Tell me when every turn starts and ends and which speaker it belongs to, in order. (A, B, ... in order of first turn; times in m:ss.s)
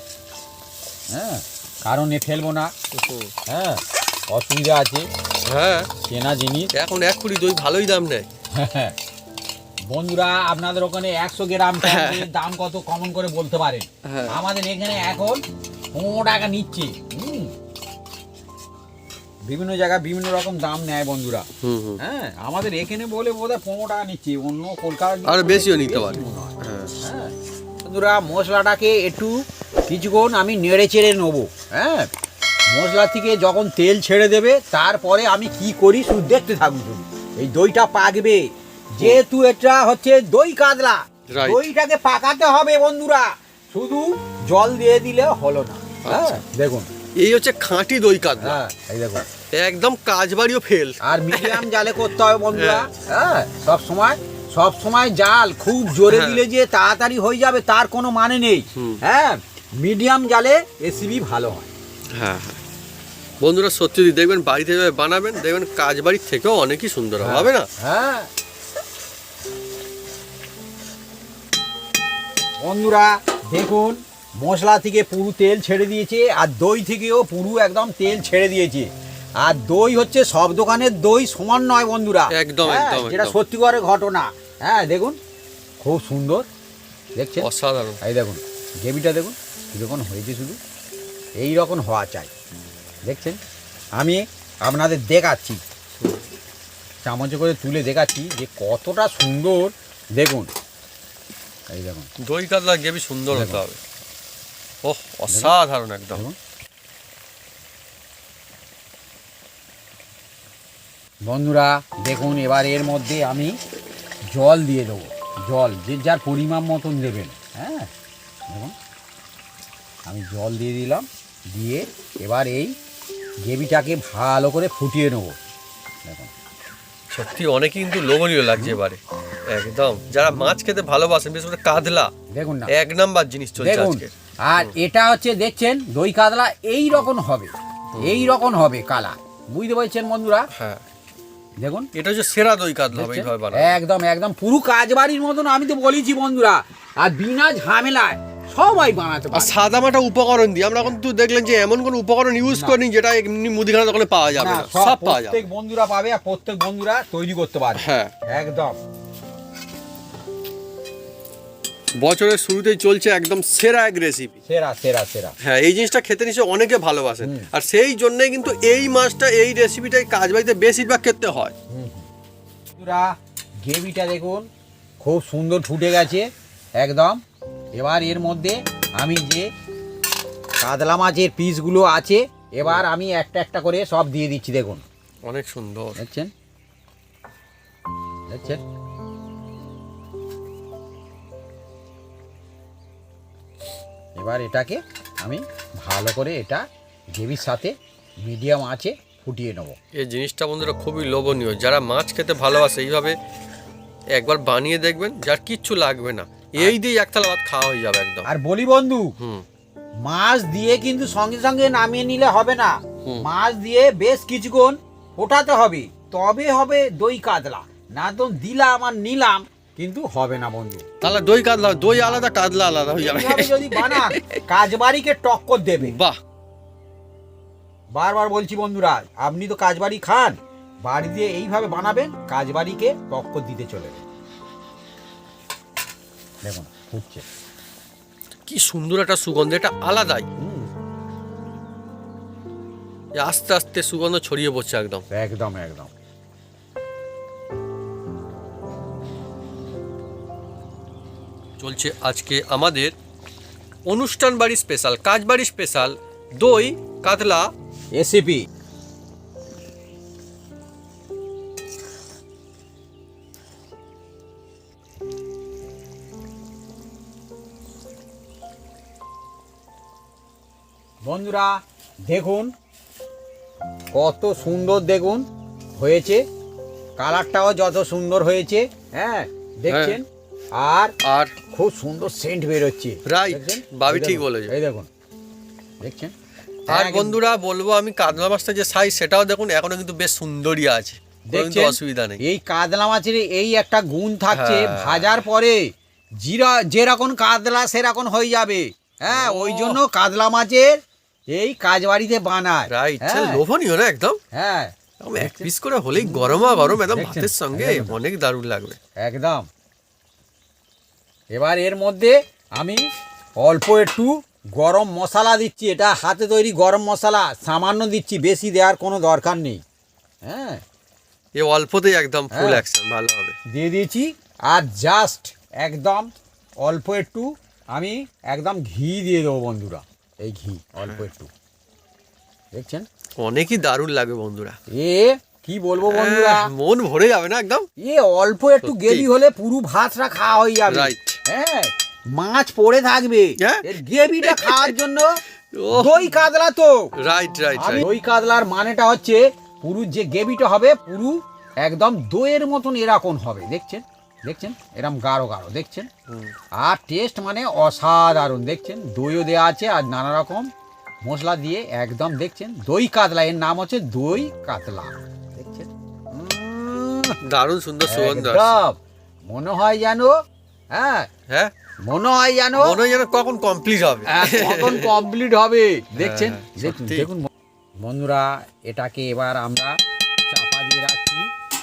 0:01.1-0:02.7 A
0:02.9-0:03.3 B
0:03.5-0:05.1 A
0:05.4-0:05.9 B
0:06.0-0:06.7 A
0:06.7-0:08.3 B
0:08.5-0:09.0 A
0:09.9-0:15.4 A
0:11.8-0:12.3 B
0:14.0-0:14.3 B
0:15.9-0:17.5 A
0:19.4-0:21.5 A
0:21.6-0:22.0 B
0:22.0-0:32.1 A
0:25.2-0:26.9 B
0:32.7-0:46.9 A
0:41.3-0:41.6 B
0:46.0-0:46.4 B
0:47.2-0:48.6 B
0:48.4-0:49.2 A
0:49.5-0:51.6 B
0:51.0-1:01.7 A
0:52.5-0:52.9 B
0:56.1-0:56.4 B
0:58.8-0:59.0 B
1:02.1-1:02.6 B
1:03.4-1:07.7 B
1:07.2-1:08.3 A
1:12.6-1:25.2 A
1:22.3-1:23.4 B
1:25.8-1:26.5 A
1:27.2-1:27.5 A
1:27.4-1:28.0 B
1:28.0-1:30.6 A
1:31.4-1:32.3 A
1:33.0-1:33.4 A
1:34.0-1:35.6 A
1:37.0-1:40.5 A
1:41.7-1:42.1 A
1:42.2-1:43.8 B
1:43.3-1:43.6 A
1:44.8-1:46.2 B
1:45.3-1:45.5 A
1:51.2-1:53.6 A
1:54.3-1:57.9 A
1:58.5-1:58.8 A
2:00.0-2:02.8 A
2:03.4-2:05.4 A
2:06.0-2:06.3 A
2:07.1-2:12.1 B
2:12.3-2:12.7 A
2:12.7-2:14.8 B
2:13.6-2:20.5 A
2:17.9-2:18.3 B
2:20.5-2:20.8 B
2:21.6-2:21.9 A
2:21.9-2:23.8 B
2:22.9-2:29.6 A
2:29.3-2:35.4 B
2:32.4-2:32.8 A
2:34.3-2:38.8 A
2:37.8-2:38.1 B
2:42.0-2:44.4 B
2:44.4-2:45.3 A
2:45.4-2:51.5 B
2:47.2-2:47.5 A
2:51.7-2:52.1 A
2:52.8-2:53.1 A
2:53.6-2:54.5 A
2:55.0-2:57.2 A
2:57.7-2:59.5 A
3:00.6-3:04.8 A
3:05.2-3:06.0 B
3:06.0-3:06.3 A
3:08.3-3:08.6 A
3:14.2-3:19.8 A
3:19.9-3:23.2 B
3:24.1-3:28.3 B
3:28.2-3:29.1 A
3:29.2-3:29.4 B
3:30.0-3:40.8 A
3:41.0-3:44.4 B
3:43.0-3:46.0 A
3:45.8-3:46.2 B
3:47.9-3:54.0 A
3:56.4-3:57.2 A
3:58.5-4:00.3 B
4:00.4-4:00.7 A
4:03.1-4:05.0 B
4:05.1-4:05.9 A
4:11.6-4:12.9 B
4:13.8-4:17.5 B
4:17.9-4:18.4 A
4:31.0-4:32.5 A
4:33.9-4:36.2 A
4:37.0-4:40.9 A
4:39.7-4:40.0 B
4:41.0-4:41.3 B
4:41.5-4:44.9 A
4:43.0-4:44.5 B
4:45.8-4:46.1 A
4:46.7-4:47.2 A
4:46.7-4:52.2 B
4:51.3-5:00.8 A
4:54.3-4:55.2 B
4:59.0-4:59.8 B
5:01.3-5:03.4 A
5:02.7-5:04.2 B
5:04.3-5:08.0 A
5:05.0-5:08.8 B
5:09.0-5:09.5 A
5:11.3-5:12.9 A
5:13.4-5:19.6 A
5:20.2-5:20.6 A
5:21.4-5:23.4 B
5:22.3-5:22.6 A
5:23.5-5:26.1 A
5:26.6-5:31.3 A
5:32.5-5:32.9 A
5:33.2-5:34.6 B
5:34.7-5:36.5 A
5:35.8-5:37.7 B
5:37.8-5:45.1 A
5:38.6-5:39.1 B
5:40.7-5:41.2 B
5:43.4-5:43.7 B
5:44.2-5:44.7 B
5:45.5-5:46.2 B
5:45.7-5:46.9 A
5:47.0-5:47.9 B
5:47.6-5:55.9 A
5:56.1-5:56.3 B
5:56.5-6:00.5 A
6:01.0-6:07.2 A
6:07.2-6:08.5 B
6:07.8-6:10.2 A
6:10.7-6:11.1 A
6:11.8-6:12.8 A
6:12.6-6:15.0 B
6:14.0-6:21.3 A
6:15.9-6:17.1 B